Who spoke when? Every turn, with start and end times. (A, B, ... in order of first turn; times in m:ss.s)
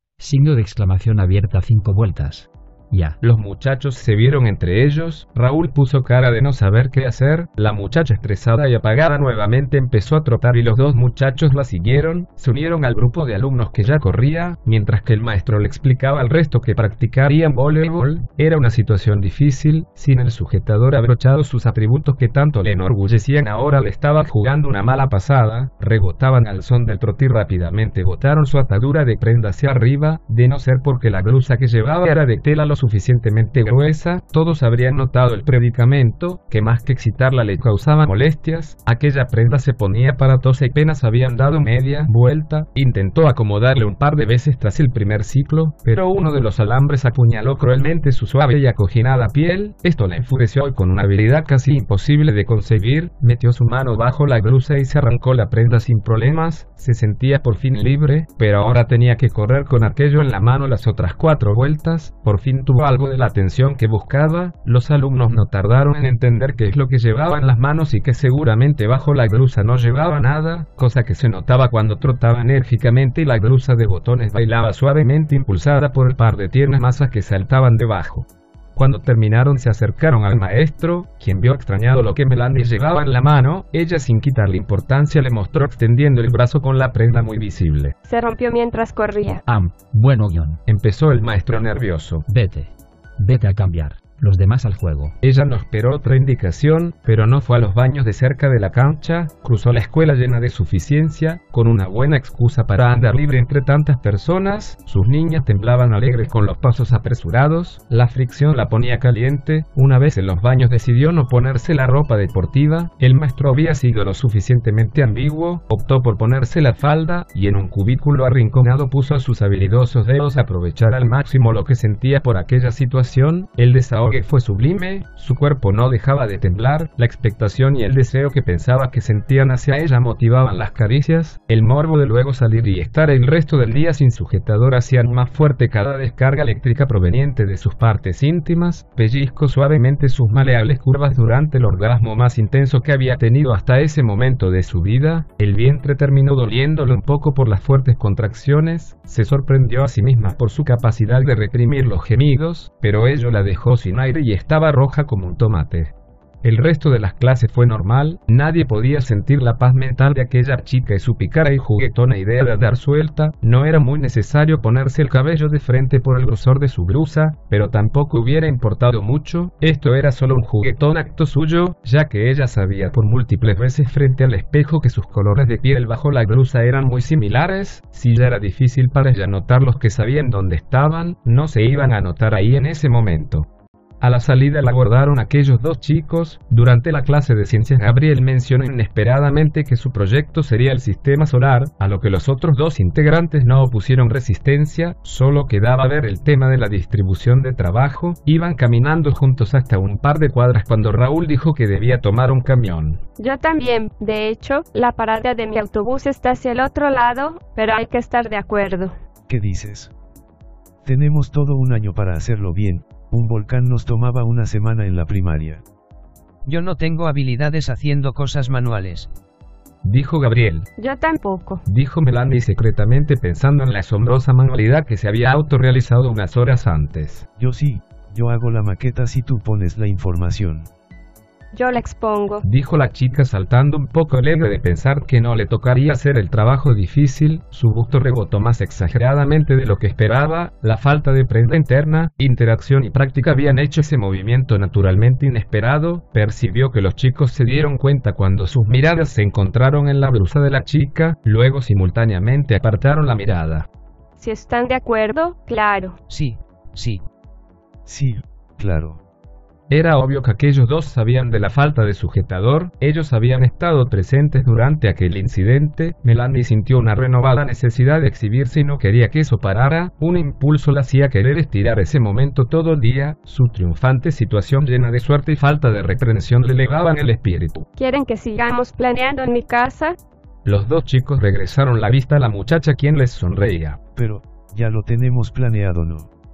0:00.2-0:03.2 A
0:03.2-1:27.9 B
1:28.0-1:29.4 C
1:29.4-1:30.6 A
1:30.6-1:32.2 B
1:32.3-1:35.1 A
1:35.2-3:03.5 B
3:04.0-3:23.0 B
3:23.2-3:28.9 C
3:29.3-3:29.9 D
3:30.8-3:35.6 D
3:36.4-3:39.1 E
3:39.8-3:40.7 B
3:40.8-3:41.6 C
3:41.6-3:47.3 B
3:47.4-3:50.7 D
3:51.5-3:52.4 C
3:52.4-4:13.7 B
4:14.2-4:16.0 C
4:16.1-4:17.0 E
4:17.8-4:19.0 D
4:19.7-4:37.7 B
4:37.8-4:40.0 C
4:40.4-4:43.8 B
4:43.9-4:46.1 D